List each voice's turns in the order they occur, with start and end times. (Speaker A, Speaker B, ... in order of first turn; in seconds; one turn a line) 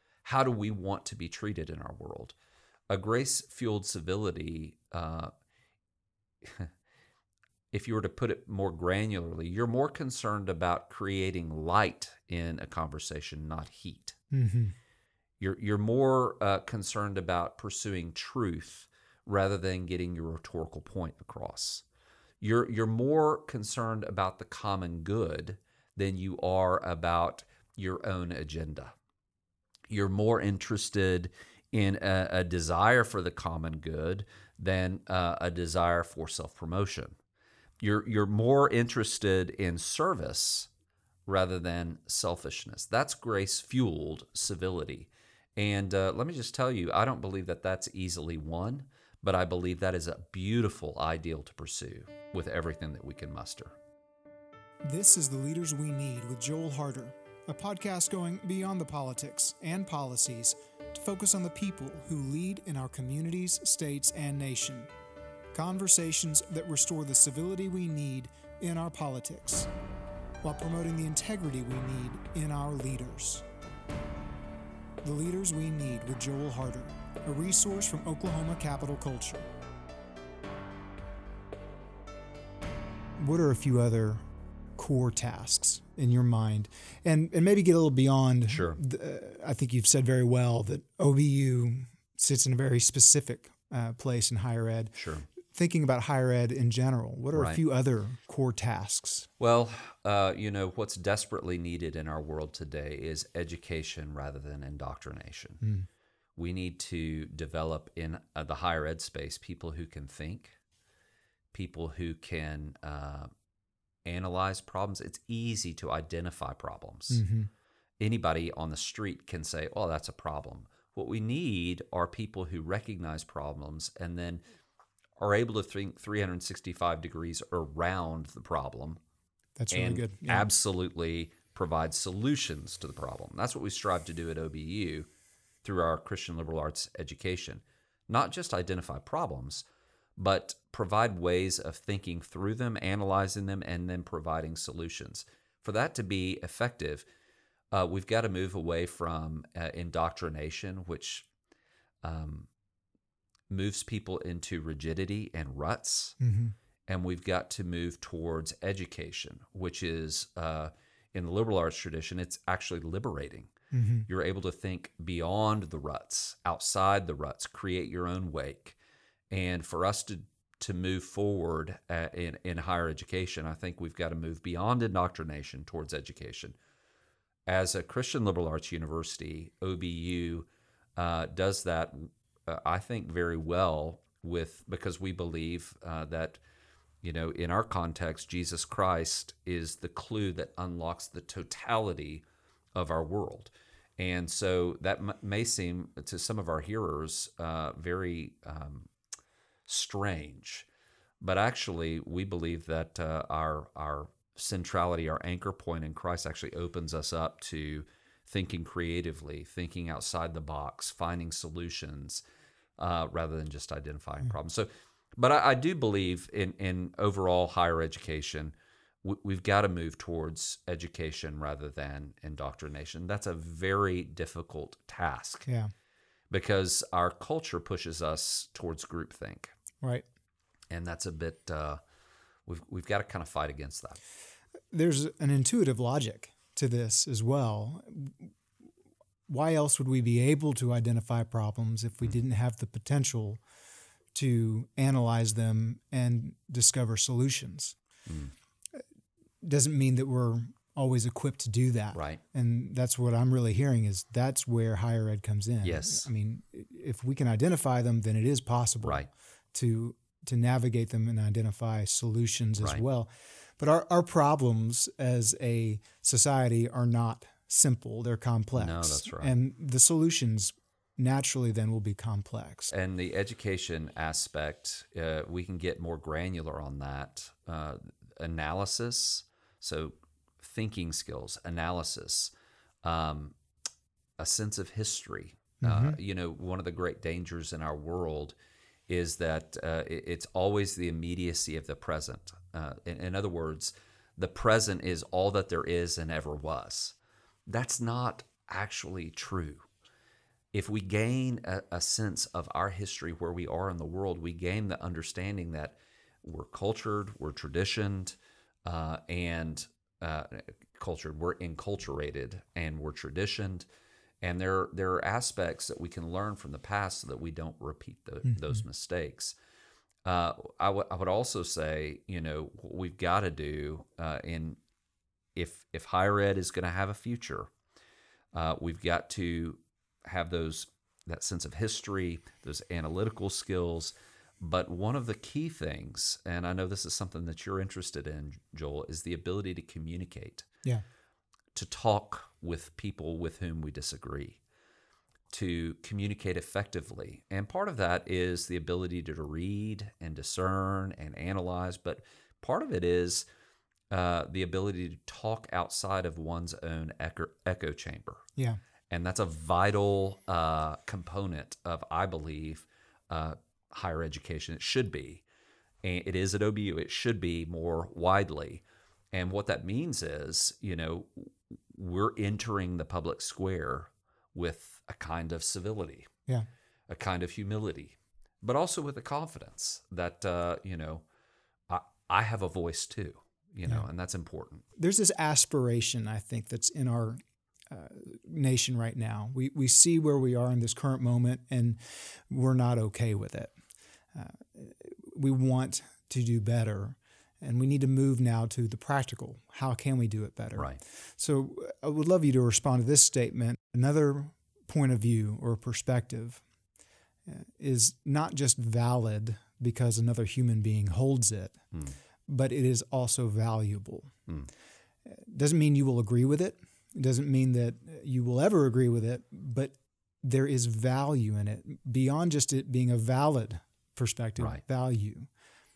Speaker A: 0.2-2.3
Speaker A: 2.9-5.3
Speaker A: 6.4-6.7
Speaker A: 7.7-14.2
Speaker B: 14.3-14.8
Speaker A: 15.4-21.8
Speaker A: 22.4-28.9
Speaker A: 29.9-37.2
Speaker A: 37.8-40.7
Speaker A: 41.3-53.8
Speaker B: 54.9-64.9
Speaker B: 65.5-69.7
Speaker B: 70.4-73.4
Speaker B: 75.0-79.5
Speaker B: 83.2-84.2
Speaker B: 84.8-94.9
Speaker A: 88.5-88.8
Speaker A: 94.9-95.3
Speaker B: 95.5-99.3
Speaker A: 97.3-97.6
Speaker A: 99.4-105.6
Speaker B: 105.6-105.9
Speaker A: 106.4-110.6
Speaker A: 111.5-113.3
Speaker A: 114.0-117.2
Speaker B: 117.1-117.5
Speaker A: 118.0-124.4
Speaker A: 125.2-129.0
Speaker B: 129.6-130.5
Speaker A: 129.7-135.1
Speaker A: 135.6-139.7
Speaker A: 140.2-147.1
Speaker A: 147.7-151.3
Speaker A: 152.0-152.5
Speaker A: 153.5-156.2
Speaker B: 156.2-156.6
Speaker A: 156.9-163.5
Speaker B: 163.7-164.1
Speaker A: 164.1-168.8
Speaker A: 169.3-176.6
Speaker A: 177.5-186.4
Speaker A: 187.0-192.2
Speaker A: 192.8-198.9
Speaker A: 199.7-200.7
Speaker A: 201.2-212.2
Speaker A: 212.8-225.5
Speaker B: 225.5-225.7
Speaker A: 226.3-229.6
Speaker A: 230.7-231.8
Speaker A: 232.5-234.0
Speaker B: 234.7-238.3
Speaker B: 239.3-243.4
Speaker B: 244.1-247.8
Speaker A: 248.1-248.3
Speaker B: 249.4-272.7
Speaker A: 251.9-252.2
Speaker A: 255.6-256.1
Speaker A: 258.8-259.1
Speaker A: 268.5-269.3
Speaker A: 272.7-282.3
Speaker A: 282.8-283.3
Speaker A: 284.2-288.4
Speaker B: 285.6-286.0
Speaker A: 288.9-296.9
Speaker A: 297.5-299.6
Speaker A: 300.5-313.6
Speaker A: 314.2-319.3
Speaker B: 318.2-318.6
Speaker A: 320.0-324.6
Speaker A: 325.4-327.5
Speaker A: 328.3-340.5
Speaker A: 341.5-344.4
Speaker A: 345.3-353.2
Speaker A: 353.9-358.2
Speaker A: 358.9-365.2
Speaker A: 365.8-376.1
Speaker A: 376.9-381.0
Speaker A: 381.7-384.6
Speaker B: 384.8-387.2
Speaker B: 387.7-393.5
Speaker B: 394.1-406.4
Speaker B: 407.2-411.6
Speaker B: 412.3-414.1
Speaker B: 415.0-425.3